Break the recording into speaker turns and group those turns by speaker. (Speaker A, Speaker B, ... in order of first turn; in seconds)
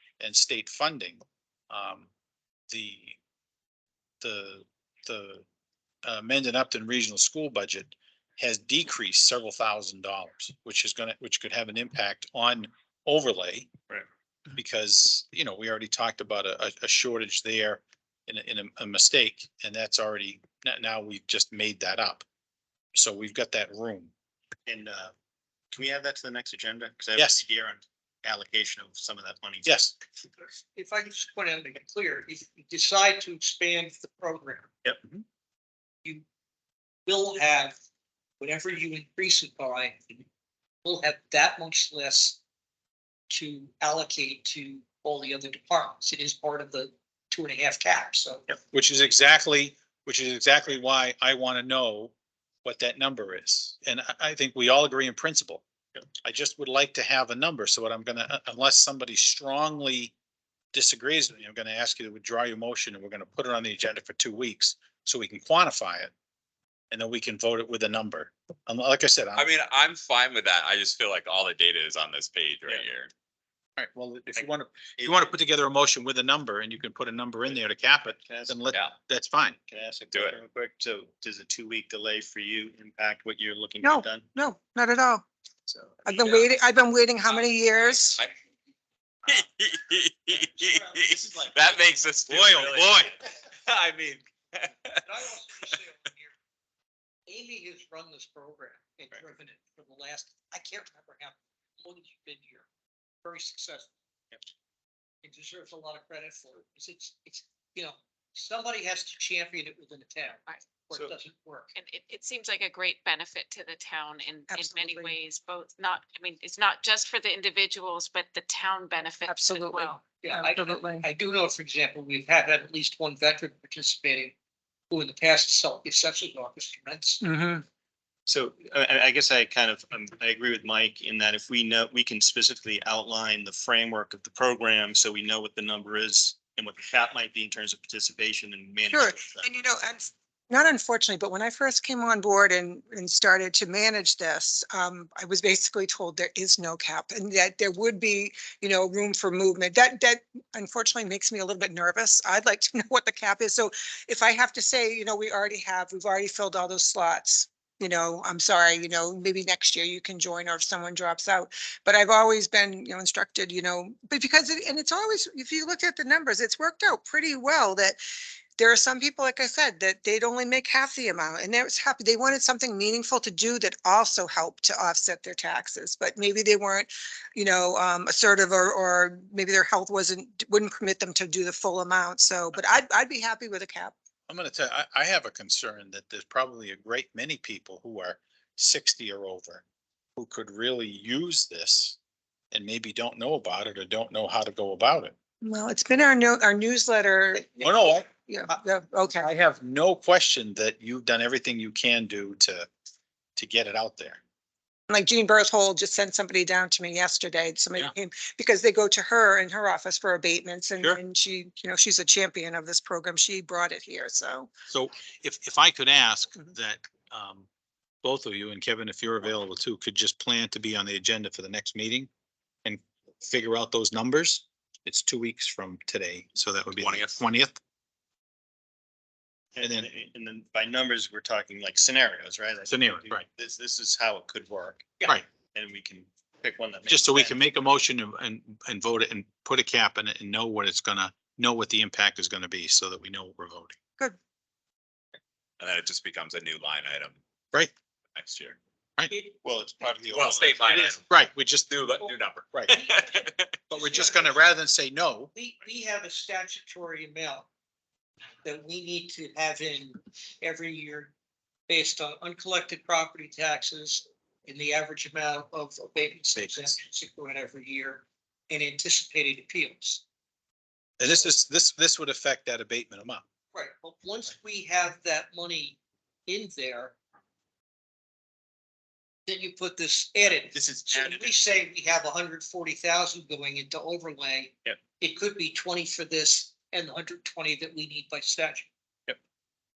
Speaker A: 0.2-2.1, 2.7-3.2, 4.2-5.4, 6.0-13.7, 14.6-22.3, 22.9-24.1, 29.6-29.9, 48.7-52.1, 52.6-55.6, 56.2-60.1, 60.7-66.1, 66.9-69.5, 73.8-79.6, 92.3-93.1, 184.3-189.6, 190.2-192.0, 192.5-195.1, 197.6-198.5, 199.1-202.7, 203.4-204.2, 214.7-217.5, 218.0-222.1, 222.7-227.6, 229.6-229.9, 232.7-233.2, 236.9-243.8, 250.7-251.8, 253.7-255.3, 266.4-266.8, 271.0-273.2
Speaker B: 24.7-25.1, 25.7-29.8, 74.3-75.4, 77.5-78.7, 79.7-84.3, 85.7-86.3, 91.2-92.1, 128.3-139.4, 229.6-235.0, 235.5-237.4, 249.4-250.7, 280.4-281.4
Speaker C: 30.7-34.7, 37.1-37.8, 38.4-40.2, 40.8-42.4, 43.3-48.5, 90.5-91.4, 95.0-96.3, 97.3-102.7, 103.2-103.9, 105.2-111.7, 120.2-124.3, 124.9-127.2, 249.1-249.4, 252.7-254.4, 255.3-257.5, 258.4-261.1, 261.7-270.0, 273.5-276.9, 279.3-288.7
Speaker D: 69.3-73.1, 80.1-80.4, 89.3-95.0, 226.8-227.2, 245.6-247.2, 248.2-248.6, 250.0-251.1, 251.7-253.5
Speaker E: 83.8-85.2, 86.1-88.2, 114.5-115.2, 119.3-121.1, 127.2-127.6, 138.9-168.0, 168.6-183.9, 195.4-199.3, 204.9-214.5
Speaker F: 111.8-120.0